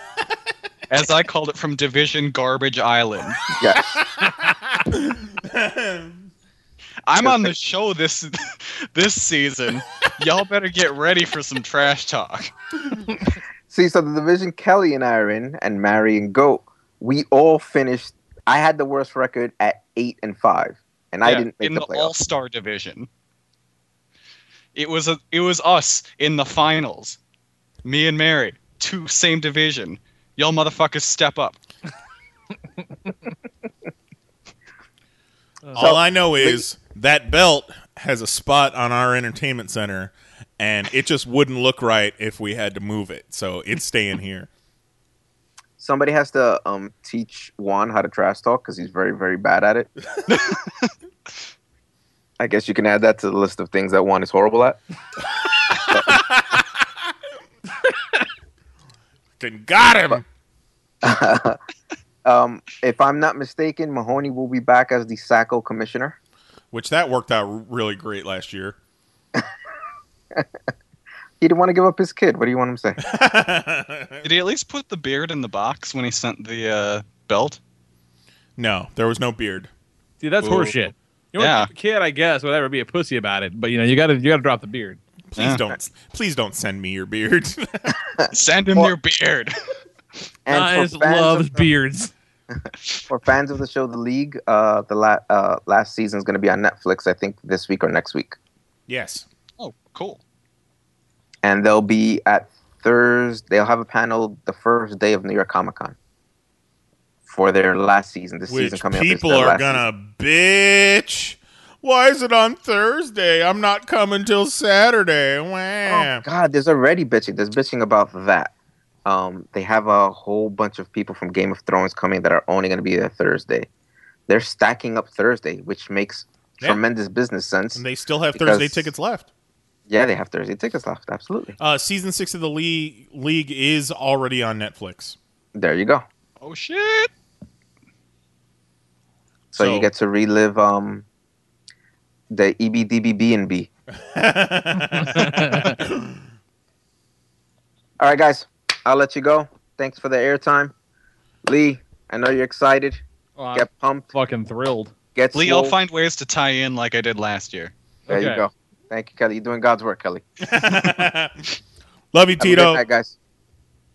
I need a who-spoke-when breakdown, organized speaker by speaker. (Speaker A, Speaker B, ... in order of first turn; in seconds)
Speaker A: 0.9-3.4, 7.1-12.5, 21.2-23.1, 24.8-27.2, 27.9-31.6, 50.3-50.9, 74.2-77.6, 80.4-80.8, 81.4-81.7, 85.4-85.6, 88.3-89.5, 99.6-100.2, 136.4-137.1, 155.3-157.7
Speaker B: 3.6-6.3, 35.8-44.5, 55.9-56.8, 59.4-60.2, 66.7-68.8, 73.0-74.2, 78.6-79.7, 85.3-88.0, 98.9-99.3, 108.5-116.3, 127.8-129.3, 131.6-135.2, 139.6-139.9, 143.9-146.2, 160.4-161.3, 162.1-162.8
Speaker C: 7.2-7.5, 13.7-22.1, 35.8-36.6, 45.8-49.9, 52.4-54.8, 55.9-56.2, 61.0-61.6, 62.2-66.2, 71.4-73.0, 88.2-88.9, 90.5-91.7, 92.5-98.4, 101.4-106.0, 107.3-109.8, 115.9-118.5, 119.1-123.7, 124.3-128.9, 129.9-131.6, 135.6-136.1, 139.5-141.1, 142.3-143.7, 148.0-150.7, 151.4-153.0, 153.5-154.1, 155.1-155.8, 158.1-160.2, 162.4-163.1
Speaker D: 35.6-36.0, 80.2-85.0, 90.5-92.1, 144.8-145.8, 153.4-154.9, 158.1-158.4